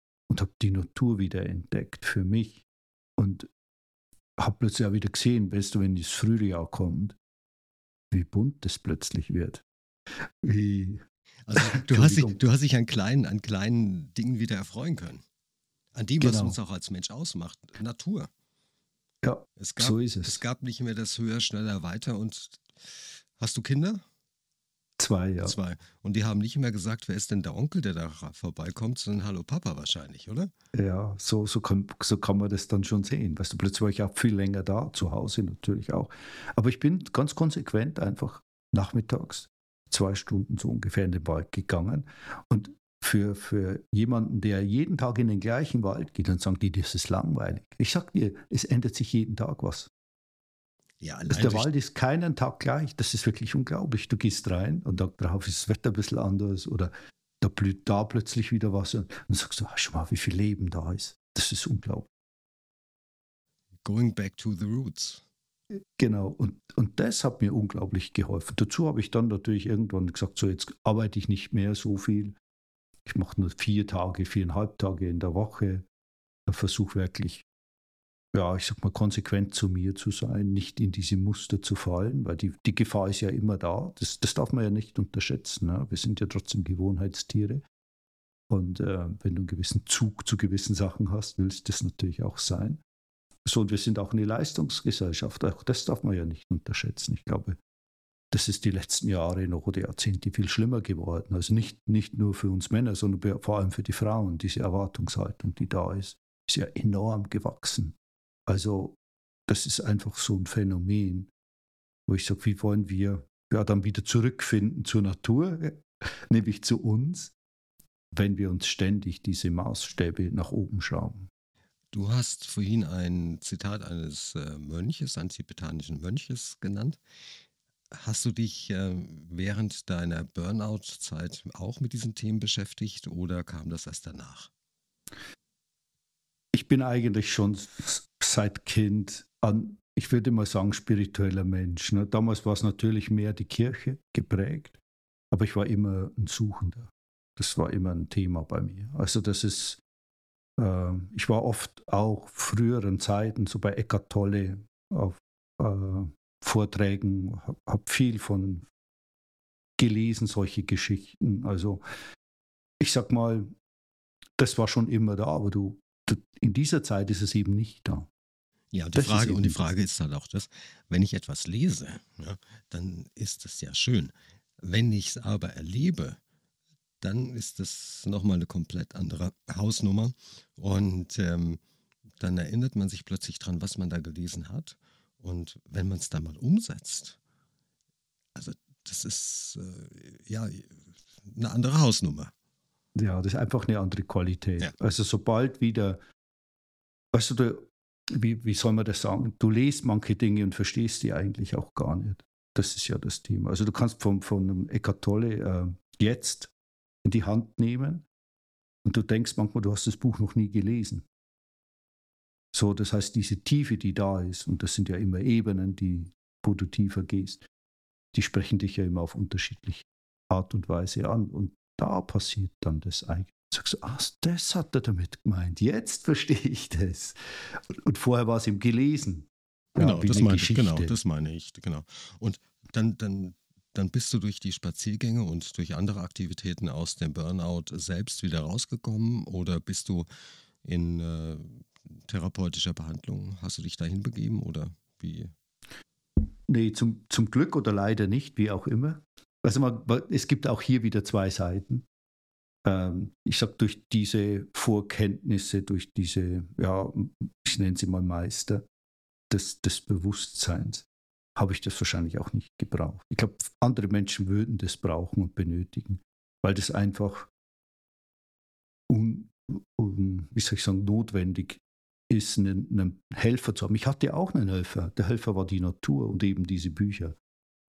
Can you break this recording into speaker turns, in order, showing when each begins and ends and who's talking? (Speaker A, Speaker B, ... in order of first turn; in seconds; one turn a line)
Speaker A: 0.3-2.6
Speaker A: 3.2-3.5
Speaker A: 4.4-7.2
Speaker A: 8.1-9.6
Speaker A: 10.4-11.0
Speaker B: 11.5-15.2
Speaker A: 11.6-12.4
Speaker B: 15.9-18.3
Speaker A: 16.2-16.6
Speaker A: 19.2-20.4
Speaker B: 19.6-24.0
Speaker A: 25.0-25.6
Speaker B: 25.4-30.5
Speaker A: 30.7-49.9
Speaker B: 51.0-51.7
Speaker A: 51.3-62.1
Speaker B: 63.8-65.2
Speaker A: 66.0-72.3
Speaker A: 73.1-75.8
Speaker A: 76.5-77.5
Speaker A: 78.3-87.6
Speaker A: 88.5-92.8
Speaker A: 93.5-97.6
Speaker A: 98.3-108.0
Speaker A: 108.5-111.3
Speaker A: 112.1-117.3
Speaker A: 118.1-121.3
Speaker B: 121.9-127.0
Speaker B: 127.9-134.5
Speaker A: 136.5-144.8
Speaker A: 145.3-149.8
Speaker A: 150.6-158.7
Speaker A: 159.8-161.8
Speaker A: 162.8-163.5
Speaker A: 164.4-168.1
Speaker B: 168.7-176.2
Speaker A: 168.9-169.6
Speaker B: 177.0-181.6
Speaker B: 182.2-187.2
Speaker B: 188.3-192.3
Speaker A: 192.9-196.0
Speaker A: 197.1-206.5
Speaker A: 207.0-208.1
Speaker A: 208.8-211.1
Speaker A: 212.5-217.5
Speaker A: 218.1-230.9
Speaker B: 229.8-240.1
Speaker B: 240.6-245.3
Speaker A: 246.5-251.9
Speaker A: 252.7-258.6
Speaker A: 259.3-267.3
Speaker A: 268.9-277.2